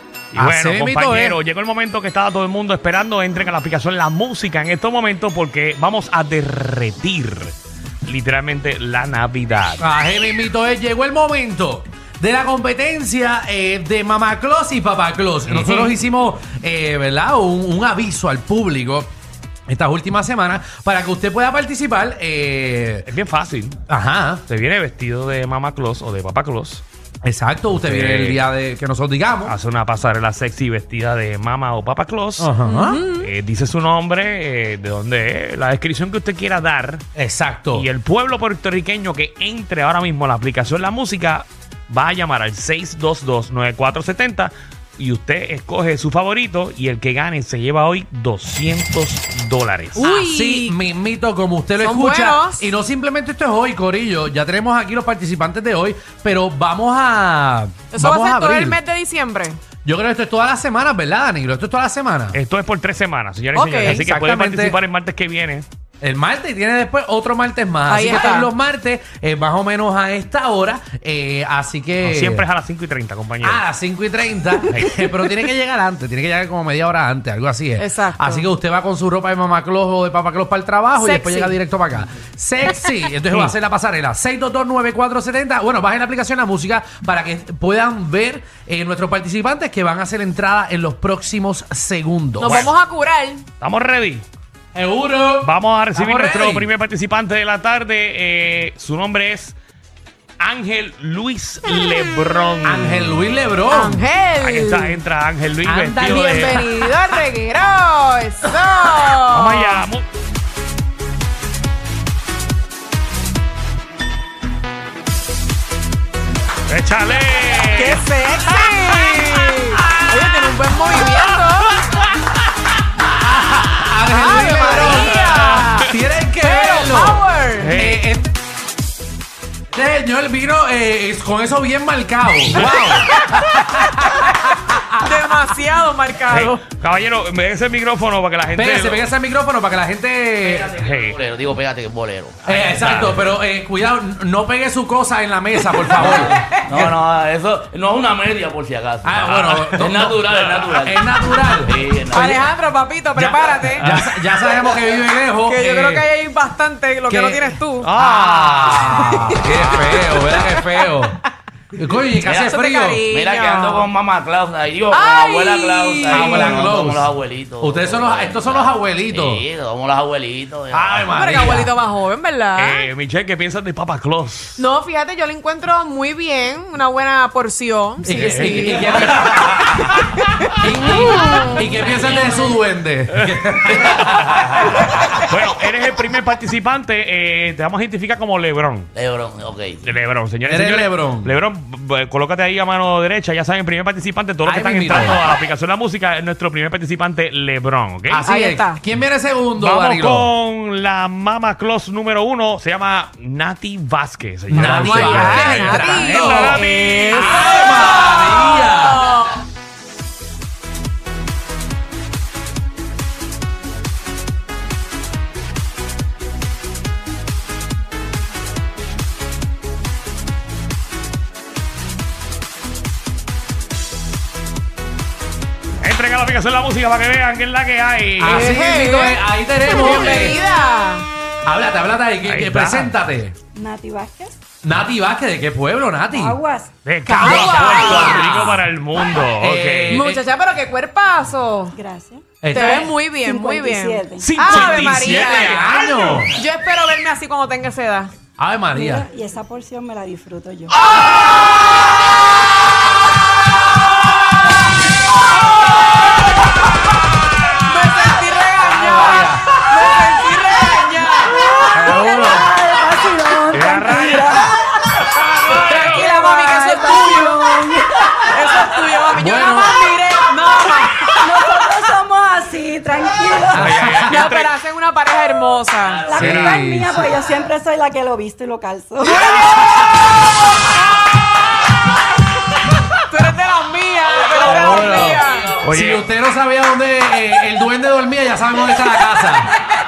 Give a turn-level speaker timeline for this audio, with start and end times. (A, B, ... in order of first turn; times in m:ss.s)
0:00.3-0:09.8 A
0:00.3-0:01.4 B
0:09.8-0:19.1 B
0:15.5-0:16.0 A
0:19.7-0:23.1 B
0:23.0-0:23.8 A
0:23.9-0:24.4 B
0:24.5-0:26.8 A
0:27.2-0:29.6 B
0:27.8-0:28.4 A
0:29.4-0:37.0 A
0:32.4-0:33.0 B
0:32.7-0:33.3 C
0:37.1-0:37.9 B
0:37.7-0:50.1 A
0:50.0-0:50.7 C
0:50.0-0:58.8 B
0:51.8-0:52.6 C
0:57.9-0:59.6 C
0:59.8-1:02.4 B
1:02.3-1:05.6 A
1:03.5-1:04.0 C
1:03.8-1:04.8 B
1:06.0-1:12.4 B
1:07.9-1:08.5 C
1:12.0-1:13.6 A
1:13.4-1:32.7 B
1:14.7-1:15.0 A
1:17.8-1:18.4 C
1:21.0-1:21.5 C
1:32.4-1:33.4 C
1:32.4-1:32.7 A
1:33.6-1:34.2 A
1:34.7-1:36.7 B
1:35.4-1:39.6 A
1:40.4-1:43.2 A
1:42.6-1:44.0 B
1:43.7-1:45.0 C
1:44.4-1:46.8 A
1:45.6-1:49.8 C
1:49.3-1:50.0 A
1:56.7-1:58.0 A
1:57.7-2:01.8 C
2:03.1-2:08.3 B
2:04.1-2:07.7 C
2:04.7-2:05.9 A
2:07.6-2:08.0 A
2:09.7-2:14.3 B
2:12.5-2:13.0 A
2:15.0-2:16.6 C
2:16.3-2:19.0 A
2:18.5-2:20.7 B
2:20.4-2:23.1 D
2:20.7-2:21.2 A
2:22.4-2:26.9 B
2:22.5-2:23.2 A
2:25.8-2:32.5 D
2:29.0-2:32.5 B
2:32.1-2:33.9 C
2:33.1-2:36.0 B
2:35.4-2:37.9 C
2:37.1-2:41.2 B
2:37.8-2:40.1 A
2:40.2-2:40.8 C
2:41.7-2:43.0 B
2:42.1-2:42.5 D
2:42.5-2:43.9 C
2:43.1-2:51.2 D
2:44.9-2:46.6 C
2:46.1-2:49.5 B
2:50.7-2:51.7 B
2:51.1-2:52.9 C
2:52.6-2:54.6 A
2:54.6-2:59.0 C
2:58.0-3:04.9 B
2:58.1-2:59.4 A
3:00.0-3:02.6 C
3:03.8-3:04.4 A
3:04.9-3:08.9 A
3:08.9-3:09.8 D
3:09.8-3:18.3 A
3:10.4-3:11.3 B
3:14.4-3:15.2 B
3:18.1-3:20.3 B
3:18.2-3:18.8 C
3:19.6-3:27.8 A
3:24.5-3:26.6 B
3:24.8-3:29.3 C
3:27.1-3:29.0 B
3:45.8-3:48.6 A
3:48.2-3:50.4 B
3:48.3-3:51.0 C
3:51.4-3:53.4 B
3:52.2-3:53.0 A
3:53.5-3:54.4 E
3:54.6-3:56.4 B
3:56.1-3:57.1 E
3:56.8-4:00.1 A
3:57.0-3:58.4 C
3:57.2-3:58.6 B
3:59.4-4:00.2 B
3:59.9-4:01.8 C
4:01.7-4:04.5 E
4:02.4-4:02.9 B
4:02.5-4:08.1 C
4:04.2-4:06.2 A
4:04.4-4:06.4 B
4:08.4-4:09.0 B
4:08.7-4:10.7 E
4:17.6-4:21.4 C
4:18.6-4:19.6 B
4:21.2-4:28.6 E
4:21.7-4:22.6 B
4:23.5-4:24.5 A
4:25.5-4:27.7 C
4:25.6-4:26.0 A
4:28.3-4:31.1 C
4:29.1-4:29.8 B
4:31.0-4:34.1 E
4:33.5-4:34.2 B
4:33.5-4:34.5 A
4:34.1-4:36.1 C
4:35.8-4:36.2 D
4:36.0-4:39.3 E
4:36.1-4:37.1 B
4:36.2-4:36.6 A
4:39.1-4:39.8 B
4:43.1-4:45.5 C
4:44.2-4:45.5 D
4:44.4-4:49.5 B
4:45.6-4:46.0 A